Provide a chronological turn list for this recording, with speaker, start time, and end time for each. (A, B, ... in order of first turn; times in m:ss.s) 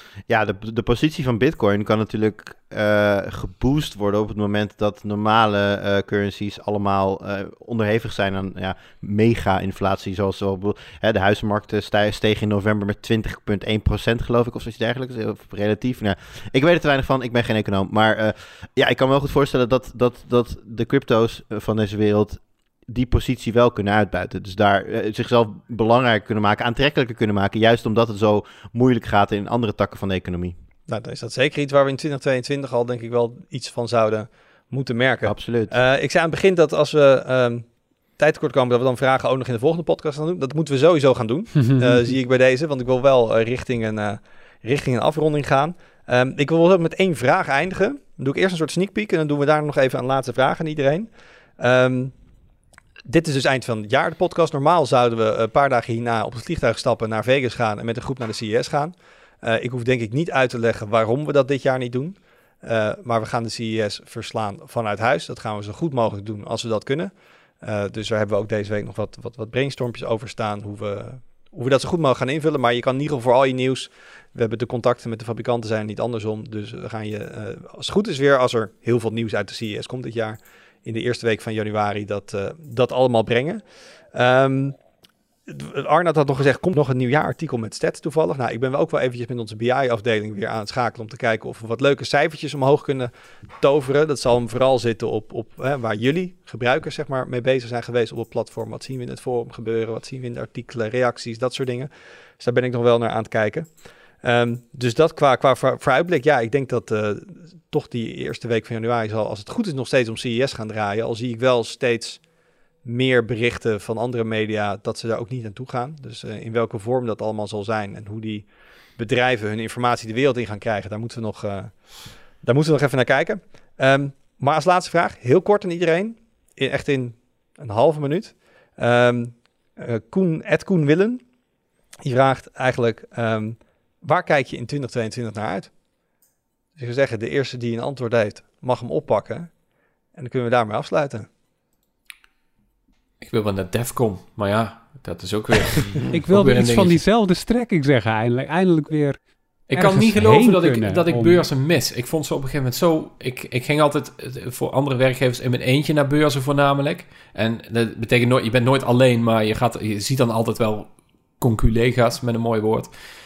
0:00.3-0:30.5 A
0:30.9-0:52.2 B
0:35.2-0:35.8 A
0:41.6-0:42.0 C
0:53.0-1:24.8 B
1:25.5-1:52.3 B
1:52.8-2:11.3 B
2:12.0-2:15.7 B
2:16.8-2:19.5 B
2:20.1-2:21.3 B
2:23.2-2:27.0 D
2:26.1-2:29.2 C
2:29.7-2:42.9 D
2:29.7-2:31.4 C